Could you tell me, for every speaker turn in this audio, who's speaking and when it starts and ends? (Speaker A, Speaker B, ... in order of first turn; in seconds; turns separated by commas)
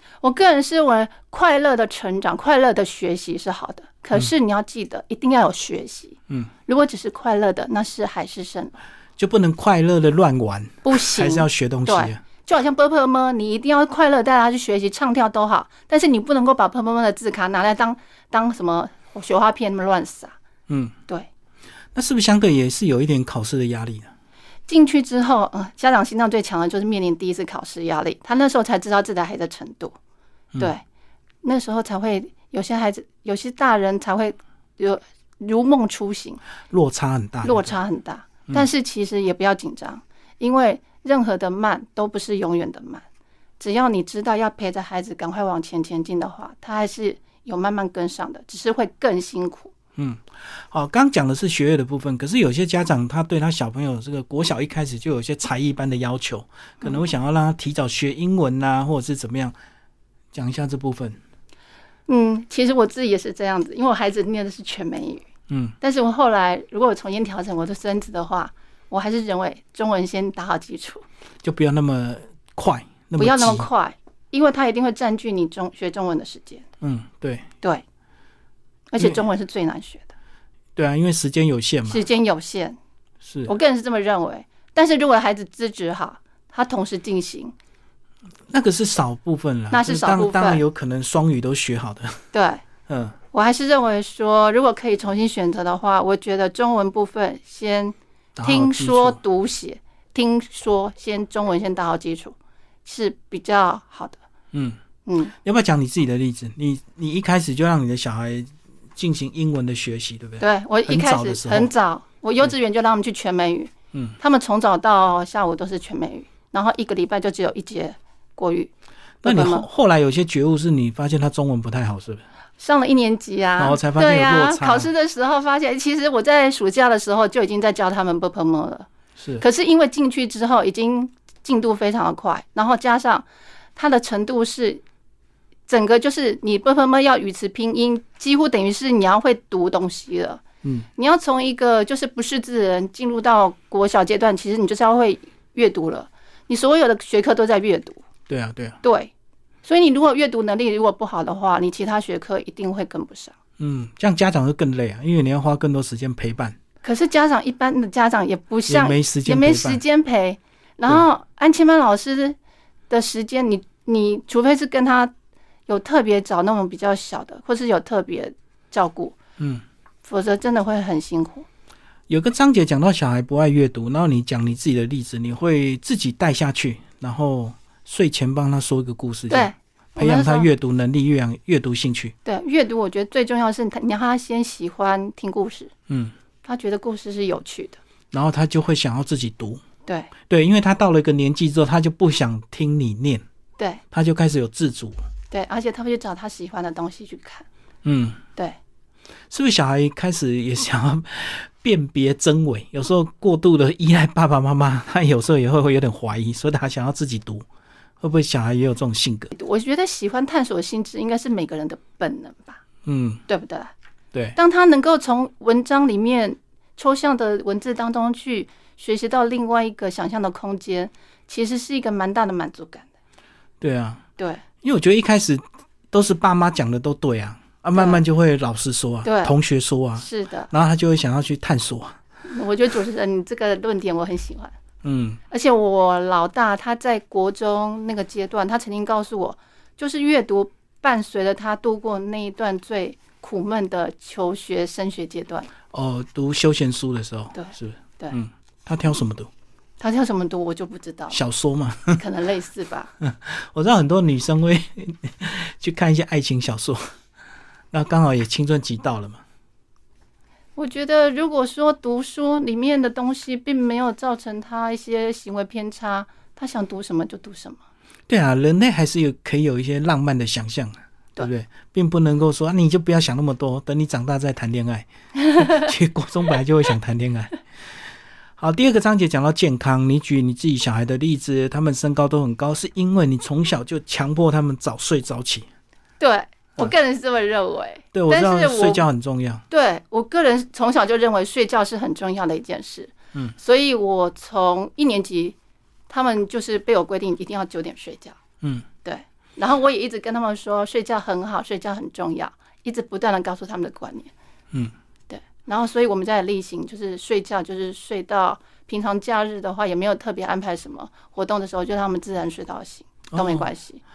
Speaker A: 0.2-8.7, Speaker B: 9.2-12.2, Speaker A: 10.8-20.3, Speaker B: 20.7-20.9, Speaker B: 21.9-24.1, Speaker A: 24.7-29.9, Speaker A: 31.4-36.4, Speaker B: 36.7-37.7, Speaker A: 37.4-43.0, Speaker A: 43.6-49.7, Speaker B: 50.0-59.5, Speaker B: 60.3-61.2, Speaker A: 62.1-65.2, Speaker B: 65.5-65.7, Speaker A: 65.8-71.0, Speaker B: 71.4-73.7, Speaker A: 73.2-76.6, Speaker B: 76.8-77.5, Speaker A: 78.9-80.1, Speaker B: 80.8-82.0, Speaker A: 81.9-82.8, Speaker B: 83.2-83.5, Speaker A: 83.5-87.5, Speaker B: 88.5-92.2, Speaker A: 89.7-90.6, Speaker A: 92.3-92.6, Speaker B: 92.8-93.2, Speaker A: 93.3-104.2, Speaker B: 98.4-99.2, Speaker B: 104.5-104.8, Speaker A: 105.0-105.3, Speaker B: 105.4-111.7, Speaker A: 110.4-118.7, Speaker A: 119.2-119.6, Speaker B: 119.2-122.2, Speaker A: 122.6-128.9, Speaker B: 123.6-124.9, Speaker B: 129.2-129.4, Speaker A: 129.4-134.8, Speaker A: 135.7-140.4, Speaker A: 141.0-148.0, Speaker B: 148.3-148.8, Speaker A: 148.8-149.1, Speaker A: 149.6-153.3, Speaker B: 153.6-156.6, Speaker A: 156.8-162.4, Speaker B: 158.7-159.8, Speaker A: 162.9-165.1, Speaker A: 165.7-169.2, Speaker B: 169.4-169.6, Speaker A: 170.0-171.5, Speaker B: 172.1-182.1, Speaker A: 179.3-180.5, Speaker A: 182.2-185.7, Speaker B: 185.9-186.1, Speaker A: 186.4-187.8, Speaker B: 188.1-189.6, Speaker A: 189.8-190.1, Speaker B: 190.3-193.2, Speaker B: 193.9-195.0, Speaker A: 195.3-197.4, Speaker B: 197.8-198.2, Speaker B: 199.3-207.4, Speaker B: 208.0-209.3, Speaker A: 209.3-212.6, Speaker B: 212.8-213.2, Speaker A: 213.3-213.7, Speaker A: 214.4-222.9, Speaker B: 223.6-224.0, Speaker A: 224.2-224.4, Speaker B: 224.6-232.0, Speaker A: 227.7-228.0, Speaker A: 229.0-229.3, Speaker A: 230.0-230.5, Speaker A: 232.2-234.5, Speaker B: 234.8-235.2, Speaker A: 235.3-245.5, Speaker B: 245.7-249.3, Speaker A: 247.3-248.2, Speaker A: 249.8-251.2, Speaker B: 251.1-252.0, Speaker A: 252.0-252.9, Speaker B: 253.0-256.9, Speaker B: 257.7-259.2, Speaker A: 260.6-267.6, Speaker B: 268.1-277.4, Speaker A: 275.2-275.6, Speaker B: 278.4-285.5, Speaker A: 286.0-288.8, Speaker B: 287.9-289.4, Speaker A: 289.5-295.4, Speaker A: 295.9-298.2, Speaker A: 298.8-304.1, Speaker A: 305.1-313.8, Speaker B: 313.1-313.5